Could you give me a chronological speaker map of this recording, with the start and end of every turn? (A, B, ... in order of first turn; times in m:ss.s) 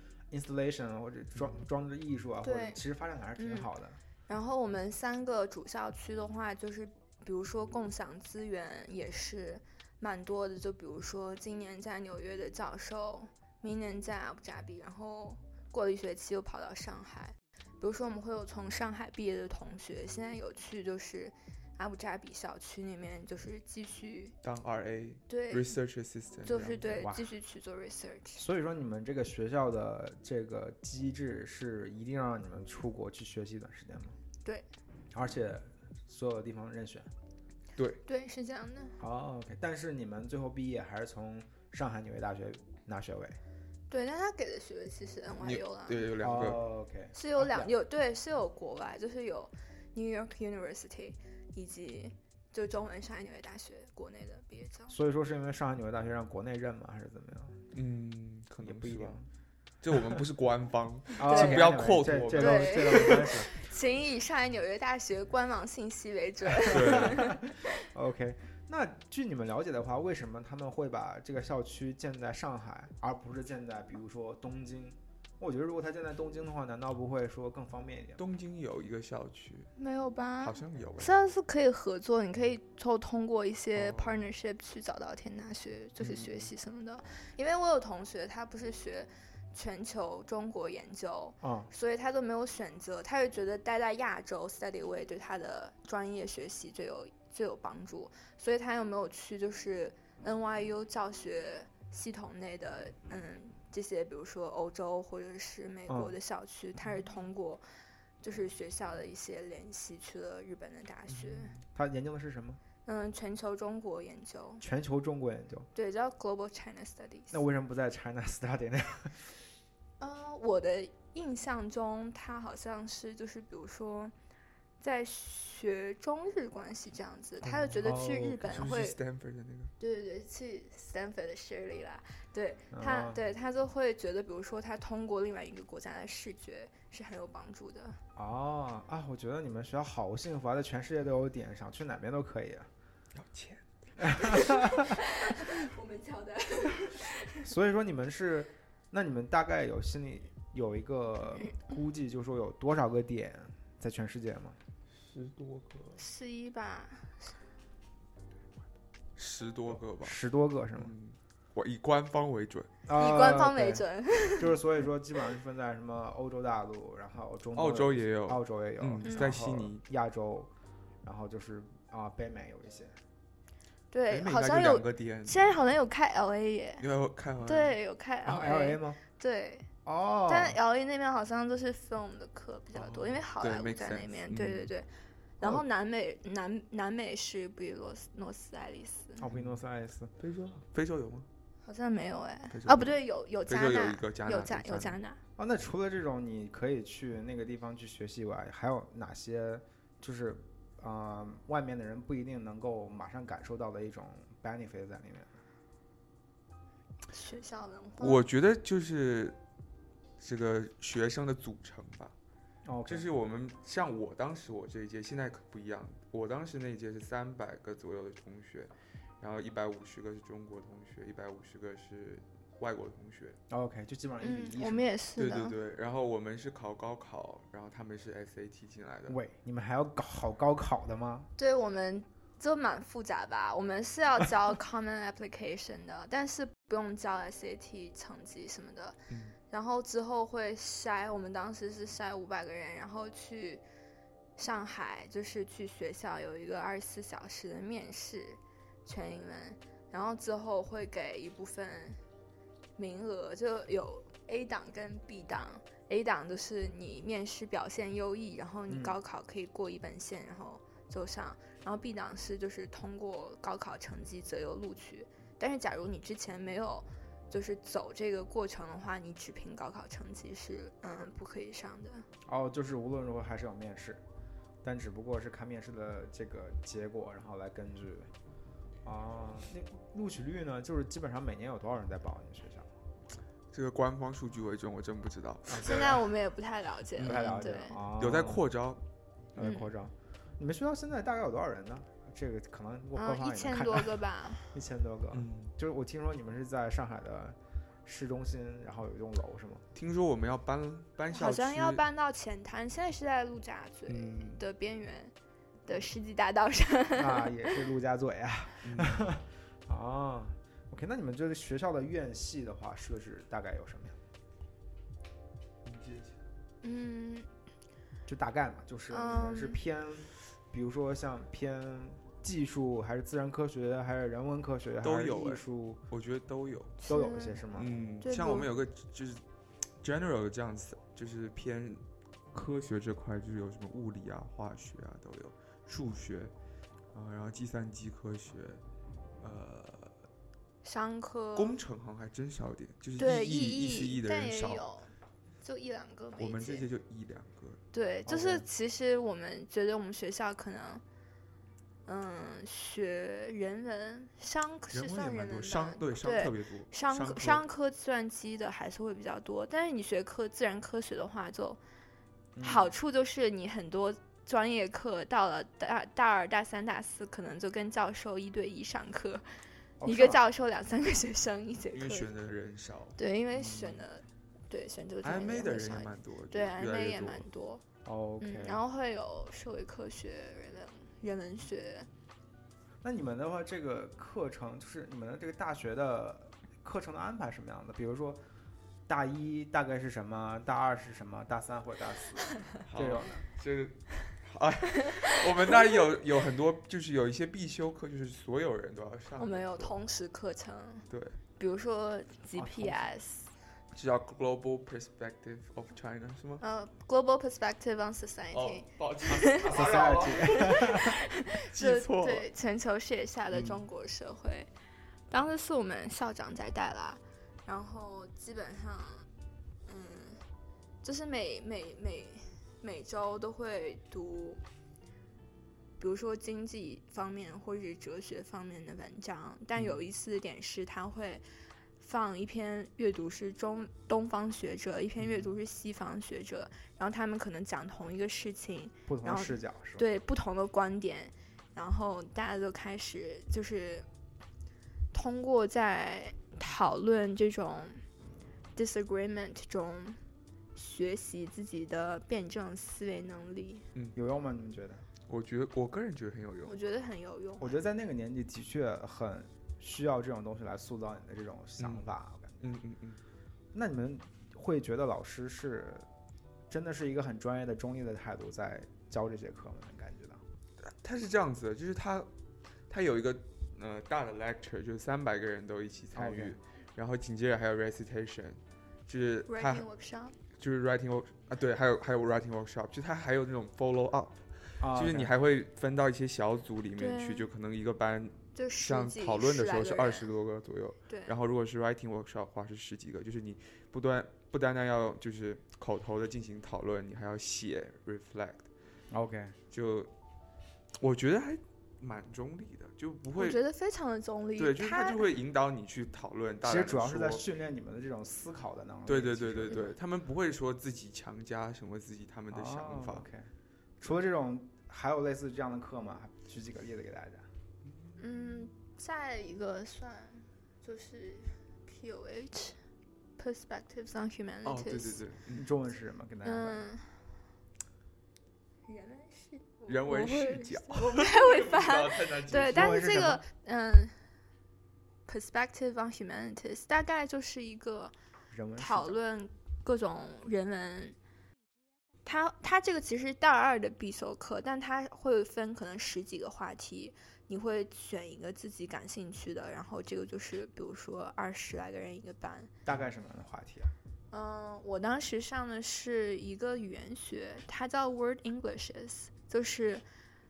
0:00.3-0:04.0 A
0:02.4-0:02.8 B
0:03.4-0:03.7 B
0:04.3-0:24.4 B
0:24.4-0:27.1 C
0:25.3-0:25.8 B
0:26.4-0:28.4 B
0:26.8-0:27.3 A
0:28.4-0:34.2 A
0:35.1-0:37.1 A
0:37.8-0:38.0 C
0:38.0-0:39.0 B
0:39.0-0:43.4 A
0:43.9-0:46.1 B
0:45.4-0:46.6 C
0:46.2-0:47.7 A
0:47.1-0:55.0 B
0:54.9-0:57.6 A
0:57.7-0:59.2 C
0:58.6-0:59.3 A
0:59.8-1:03.3 C
1:01.2-1:03.5 A
1:01.3-1:01.8 B
1:02.3-1:07.4 B
1:06.6-1:18.2 A
1:06.7-1:07.3 C
1:18.2-1:19.7 C
1:19.8-1:47.6 B
1:20.4-1:21.2 C
1:23.8-1:24.2 C
1:26.0-1:26.5 C
1:31.4-1:31.7 A
1:45.9-1:46.1 A
1:48.2-1:51.5 B
1:51.1-1:51.6 C
1:51.8-1:52.6 A
1:52.8-1:54.6 B
1:54.6-1:55.7 A
1:55.8-1:57.4 B
1:57.3-1:59.4 A
2:00.0-2:04.1 B
2:04.8-2:09.0 B
2:07.6-2:08.5 A
2:07.7-2:09.7 C
2:09.8-2:18.0 B
2:12.7-2:13.2 A
2:18.2-2:22.7 A
2:23.2-2:24.6 C
2:24.0-2:24.9 A
2:24.1-2:27.5 B
2:27.4-2:34.6 A
2:34.9-2:36.0 C
2:36.0-2:37.3 B
2:39.2-2:40.2 C
2:39.7-2:40.9 A
2:40.8-2:42.7 C
2:42.9-2:43.9 A
2:42.9-2:44.5 B
2:44.4-2:50.5 A
2:47.6-2:49.8 C
2:49.0-2:49.3 B
2:51.0-2:53.0 A
2:53.9-2:56.8 B
2:54.1-2:55.6 C
2:56.8-2:57.8 C
2:57.4-2:59.7 B
2:58.2-2:59.0 A
2:59.8-3:00.6 A
3:00.3-3:09.2 B
3:02.7-3:04.7 C
3:09.2-3:10.1 A
3:09.3-3:09.6 C
3:10.2-3:11.3 C
3:11.6-3:15.2 B
3:12.5-3:15.0 C
3:15.4-3:25.4 A
3:27.1-3:28.3 B
3:28.0-3:29.4 C
3:30.2-3:32.1 C
3:32.6-3:33.1 A
3:32.9-3:43.4 C
3:43.5-3:44.9 A
3:44.2-3:45.6 B
3:45.2-3:49.2 C
3:49.1-3:51.3 A
3:51.4-4:03.6 B
3:59.1-3:59.4 C
4:04.4-4:12.0 B
4:12.8-4:32.1 B
4:18.7-4:19.0 A
4:32.3-4:34.0 A
4:34.6-4:38.1 A
4:38.8-4:42.7 A
4:43.5-4:46.0 C
4:45.5-4:46.0 A
4:45.5-4:47.8 B
4:47.0-4:48.8 C
4:47.0-4:48.5 A
4:49.4-4:59.6 A
4:49.4-4:49.7 B
4:53.0-4:54.6 B
4:55.1-4:55.5 C
4:59.8-5:01.8 C
5:01.1-5:05.1 B
5:03.9-5:04.4 C
5:05.7-5:07.6 B
5:07.0-5:14.0 A
5:08.6-5:09.1 C
5:15.6-5:16.2 C
5:16.6-5:17.3 B
5:18.1-5:25.8 A
5:18.9-5:19.6 B
5:24.8-5:26.8 C
5:26.8-5:27.4 B
5:26.9-5:27.7 A
5:27.6-5:29.2 C
5:28.0-5:28.5 B
5:29.8-5:31.8 C
5:32.3-5:36.3 C
5:36.9-5:38.6 C
5:39.2-5:40.0 C
5:40.6-5:41.6 B
5:41.4-5:44.6 C
5:43.0-5:46.7 B
5:46.2-5:47.6 C
5:47.7-5:50.8 B
5:48.1-5:48.5 A
5:51.9-6:01.6 B
5:54.7-5:57.4 C
6:02.4-6:02.7 A
6:02.4-6:09.2 B
6:09.8-6:10.2 A
6:09.8-6:12.1 B
6:11.7-6:13.8 C
6:13.0-6:17.6 B
6:15.0-6:17.2 C
6:17.8-6:18.6 A
6:18.2-6:21.9 B
6:22.8-6:28.2 A
6:28.9-6:33.2 A
6:32.6-6:39.8 C
6:34.9-6:35.5 B
6:39.2-6:40.9 B
6:40.9-6:41.2 C
6:41.4-6:43.3 B
6:42.4-6:42.9 A
6:43.7-6:46.4 C
6:46.4-6:49.7 B
6:48.3-6:52.3 C
6:49.5-6:51.0 A
6:50.2-6:54.5 B
6:55.1-6:59.1 B
6:59.7-7:00.2 B
7:00.8-7:04.4 B
7:05.8-7:11.2 B
7:11.8-7:23.9 B
7:18.9-7:19.8 A
7:24.9-7:27.8 B
7:28.6-7:30.0 B
7:30.6-7:33.6 B
7:34.0-7:34.9 A
7:35.1-7:36.6 C
7:36.5-7:37.6 B
7:37.4-7:42.4 A
7:41.6-7:41.9 C
7:42.4-7:43.0 C
7:43.5-7:45.9 A
7:46.5-7:50.2 A
7:50.6-7:52.1 C
7:52.7-7:59.7 C
7:55.9-7:56.4 A
7:59.3-8:00.2 B
8:00.4-8:18.5 C
8:04.6-8:05.1 A
8:06.8-8:07.3 B
8:08.4-8:10.1 B
8:10.9-8:11.1 B
8:18.9-8:19.4 A
8:19.5-8:19.9 C
8:20.8-8:23.4 C
8:23.2-8:25.1 B
8:24.4-8:27.2 C
8:26.4-8:29.8 A
8:28.9-8:33.1 C
8:32.3-8:37.3 A
8:38.0-8:42.6 B
8:43.2-8:45.0 B
8:44.4-8:45.5 C
8:45.3-8:46.7 A
8:46.2-8:46.9 B
8:48.7-8:54.0 B
8:49.7-8:52.8 C
8:52.5-8:53.2 A
8:55.1-8:57.9 B
8:58.3-8:59.0 A
8:58.6-9:01.0 B
9:02.0-9:12.5 B
9:12.7-9:13.7 A
9:14.1-9:19.8 B